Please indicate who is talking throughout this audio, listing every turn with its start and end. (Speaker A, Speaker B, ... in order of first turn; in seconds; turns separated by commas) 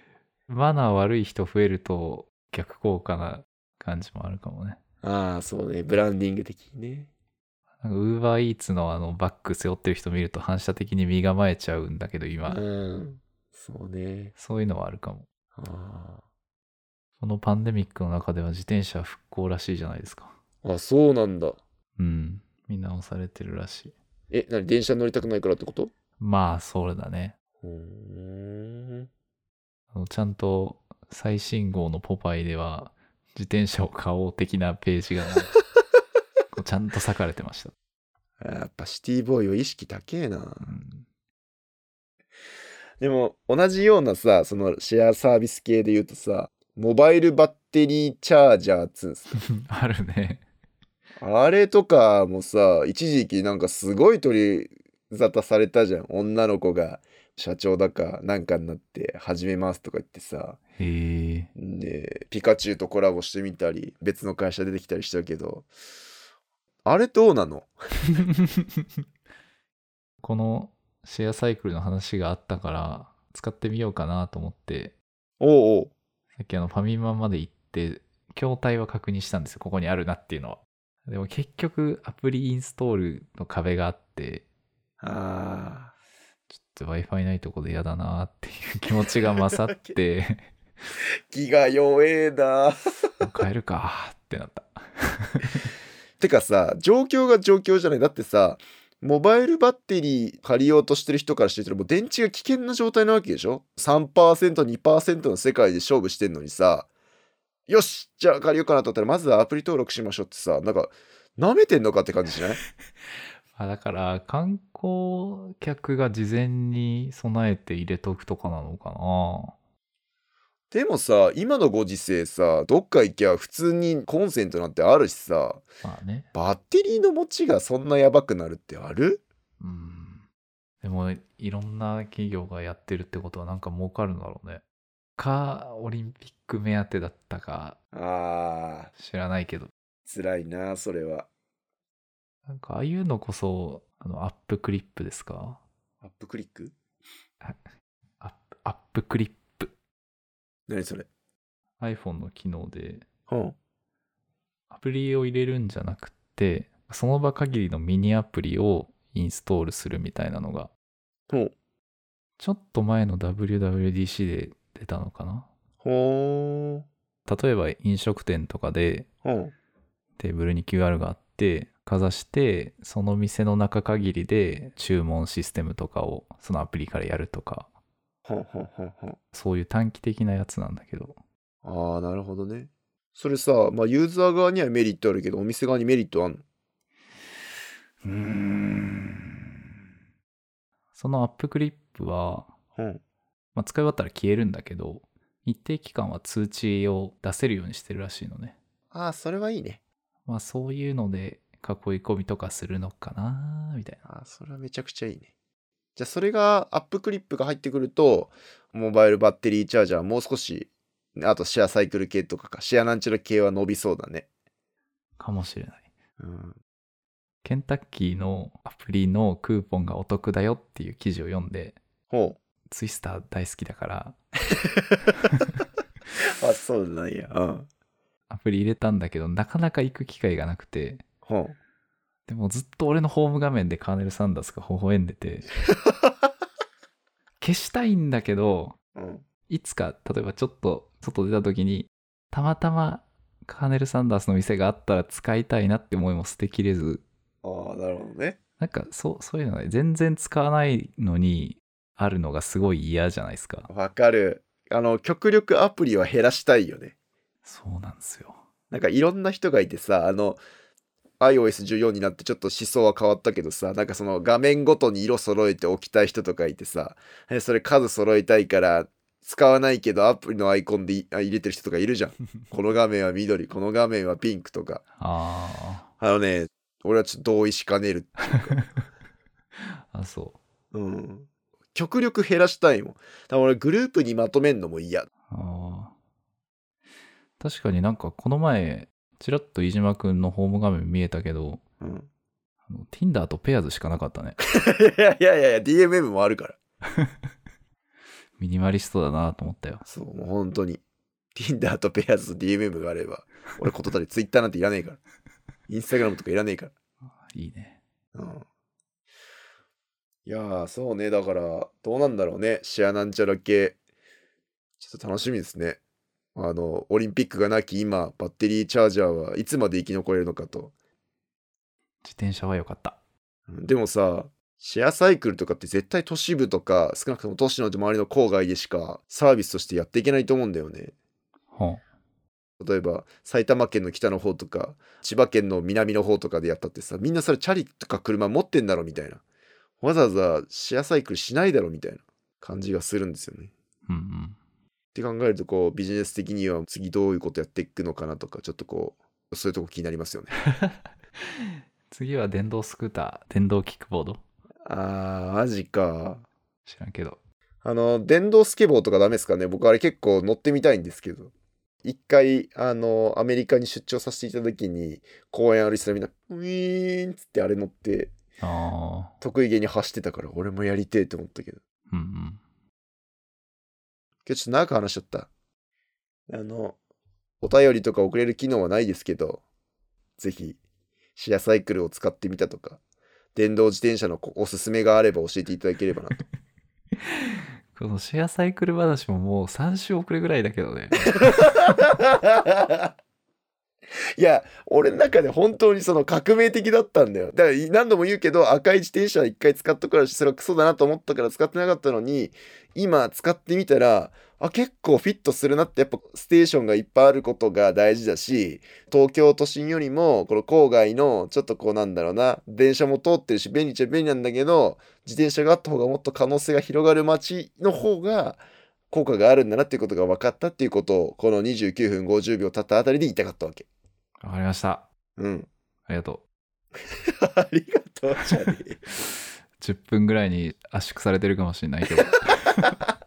Speaker A: 0.5-4.8, Speaker B: 5.0-7.1, Speaker A: 7.8-12.6, Speaker B: 12.5-14.3, Speaker A: 14.3-15.3, Speaker B: 15.6-16.2, Speaker A: 17.2-20.3, Speaker B: 20.6-21.6, Speaker A: 22.0-23.9, Speaker B: 24.3-25.9, Speaker A: 26.2-27.4, Speaker B: 27.6-29.1, Speaker A: 29.9-35.5, Speaker A: 36.5-37.7, Speaker B: 38.4-40.8, Speaker A: 40.6-41.0, Speaker B: 43.0-49.4, Speaker A: 49.4-50.4, Speaker B: 51.2-60.6, Speaker A: 60.8-61.5, Speaker B: 61.5-65.7, Speaker B: 66.8-68.2, Speaker A: 70.2-75.0, Speaker B: 75.4-75.9, Speaker A: 76.4-84.5, Speaker B: 85.0-85.9, Speaker A: 86.5-90.5, Speaker B: 89.7-90.0, Speaker B: 91.3-93.2, Speaker A: 93.2-95.7, Speaker B: 96.2-106.9, Speaker B: 107.7-112.6, Speaker A: 113.5-119.5, Speaker B: 120.7-125.6, Speaker A: 125.8-126.3, Speaker B: 126.3-129.2, Speaker A: 129.6-130.2, Speaker A: 130.8-134.6, Speaker A: 135.2-137.8, Speaker B: 137.9-138.9, Speaker A: 138.9-139.7, Speaker B: 140.1-141.3, Speaker A: 142.5-145.6, Speaker B: 146.0-146.8, Speaker A: 148.2-149.7, Speaker B: 150.7-151.1, Speaker A: 151.8-153.1, Speaker B: 153.3-153.6, Speaker A: 154.7-160.7, Speaker A: 162.4-165.5, Speaker B: 165.8-166.9, Speaker A: 167.3-169.1, Speaker B: 169.2-169.5, Speaker A: 170.2-177.7, Speaker B: 178.3-179.2, Speaker A: 179.3-181.2, Speaker B: 181.6-186.4, Speaker A: 188.0-189.3, Speaker A: 190.9-192.5, Speaker B: 192.8-193.0, Speaker A: 193.6-198.6, Speaker B: 198.9-199.8, Speaker A: 200.3-204.0, Speaker B: 204.1-205.3, Speaker B: 206.0-214.3, Speaker A: 215.2-215.9, Speaker B: 216.2-216.6, Speaker A: 217.4-221.8, Speaker B: 222.1-222.4, Speaker A: 222.7-224.2, Speaker B: 224.5-225.1, Speaker B: 226.4-227.7, Speaker A: 228.3-231.0, Speaker B: 231.2-231.6, Speaker A: 232.3-235.5, Speaker A: 237.4-238.8, Speaker B: 238.9-239.2, Speaker A: 239.5-247.0, Speaker B: 247.4-248.4, Speaker A: 248.6-253.7, Speaker B: 253.7-256.9, Speaker A: 257.4-258.4, Speaker B: 258.7-260.4, Speaker B: 261.2-274.8, Speaker A: 275.0-275.9, Speaker B: 276.0-278.6, Speaker A: 279.9-280.4, Speaker B: 280.7-285.1, Speaker A: 285.3-285.9, Speaker A: 287.4-291.6, Speaker B: 291.8-292.1, Speaker A: 292.7-294.4, Speaker B: 294.4-296.6, Speaker A: 298.4-299.8, Speaker B: 299.8-300.8, Speaker B: 301.4-305.0, Speaker B: 305.7-306.7, Speaker A: 307.3-307.8, Speaker B: 308.1-308.4, Speaker B: 310.3-313.8, Speaker B: 314.8-315.8, Speaker B: 316.4-320.7, Speaker A: 322.0-323.0, Speaker B: 323.5-330.9, Speaker A: 331.5-331.8, Speaker B: 332.6-339.2, Speaker B: 339.8-343.5, Speaker A: 343.9-344.4, Speaker B: 344.9-350.4, Speaker A: 351.9-354.2, Speaker B: 354.7-356.3, Speaker A: 356.6-357.2, Speaker B: 357.6-361.3, Speaker B: 361.8-368.1, Speaker A: 368.4-369.1, Speaker B: 369.2-371.6, Speaker A: 371.9-372.4, Speaker B: 374.3-375.3, Speaker B: 376.3-376.8, Speaker B: 377.4-379.4, Speaker B: 380.2-380.6, Speaker B: 381.2-382.8, Speaker B: 383.4-386.2, Speaker A: 387.7-391.6, Speaker B: 391.0-392.9, Speaker B: 394.2-423.7, Speaker A: 424.2-424.9, Speaker B: 425.2-425.5, Speaker A: 425.9-426.2, Speaker B: 427.1-428.8, Speaker A: 429.6-432.9